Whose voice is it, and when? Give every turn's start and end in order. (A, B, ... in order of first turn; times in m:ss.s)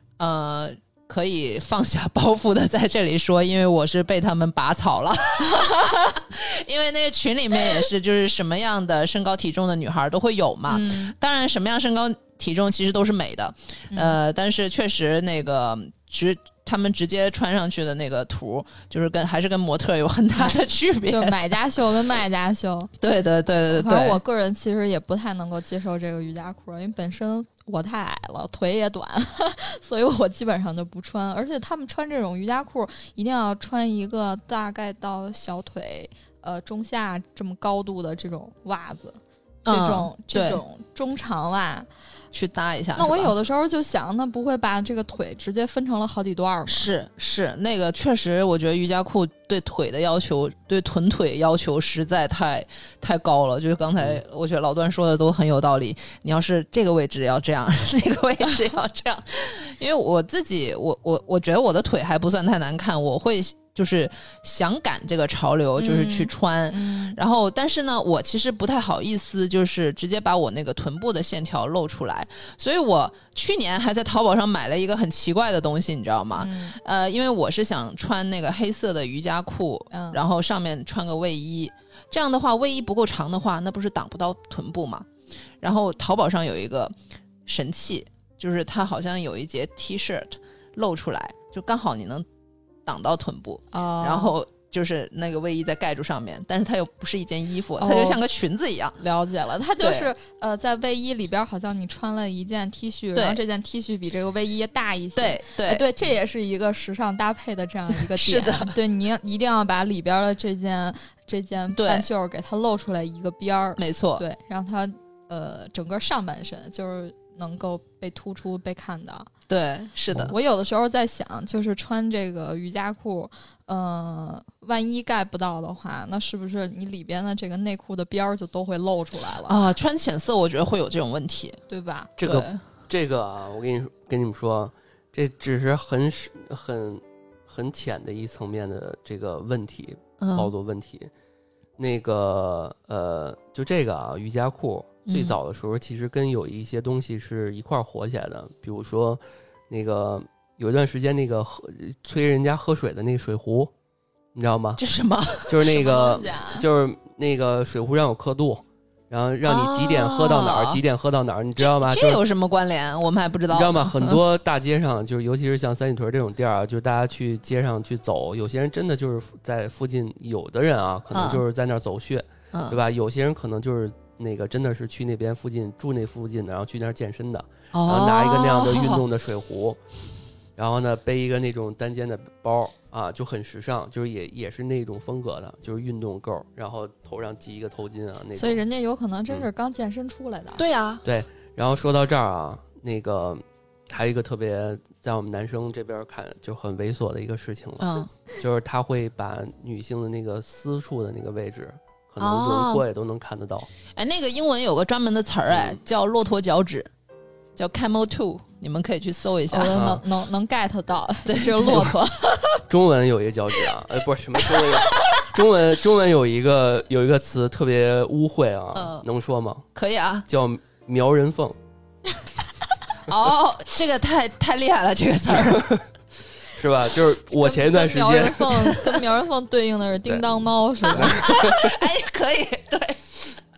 0:00.2-0:21.5 A
0:05.5-0:06.1 B
0:10.7-0:11.1 B
0:13.9-0:14.2 B
0:20.4-0:22.9 B
0:23.0-0:24.2 A
0:23.7-0:41.9 B
0:39.6-0:40.6 A
0:42.3-0:43.3 A
0:43.0-0:46.9 B
0:46.7-1:25.1 A
1:05.8-1:07.2 B
1:16.4-1:16.8 B
1:19.9-1:20.2 B
1:25.6-1:32.2 A
1:32.8-1:39.0 A
1:33.7-1:34.4 B
1:37.8-1:38.2 B
1:39.0-1:59.3 B
1:39.8-1:40.1 A
1:43.1-1:43.4 A
1:45.2-1:45.8 A
1:48.0-1:48.8 A
1:51.7-1:52.1 A
1:53.8-1:54.2 A
1:59.5-2:00.3 A
2:00.3-2:09.6 B
2:09.5-2:11.6 A
2:11.7-2:12.1 B
2:12.2-2:21.1 C
2:12.2-2:12.6 A
2:20.2-2:20.5 A
2:21.8-2:33.7 C
2:25.1-2:25.4 A
2:34.3-2:34.8 C
2:34.8-2:35.7 A
2:35.5-2:42.2 C
2:35.6-2:36.6 B
2:39.4-2:40.8 A
2:41.6-2:44.2 A
2:43.5-2:59.8 C
2:51.1-2:51.4 A
2:52.5-2:52.8 A
2:57.7-2:59.0 A
3:00.6-3:08.6 C
3:08.3-3:10.6 B
3:10.6-3:11.0 A
3:11.0-3:23.7 C
3:17.8-3:18.1 A
3:22.2-3:22.8 A
3:23.9-3:26.9 A
3:25.5-3:25.8 C
3:27.6-3:29.9 A
3:29.5-3:32.6 B
3:29.7-3:30.0 C
3:31.2-3:31.9 A
3:32.7-3:39.6 C
3:38.7-3:39.0 A
3:39.7-3:40.2 A
3:40.3-3:41.6 C
3:43.0-3:45.7 A
3:45.5-3:45.8 C
3:46.5-3:48.8 C
3:47.4-3:51.5 B
3:50.9-3:51.8 C
3:50.9-3:53.2 A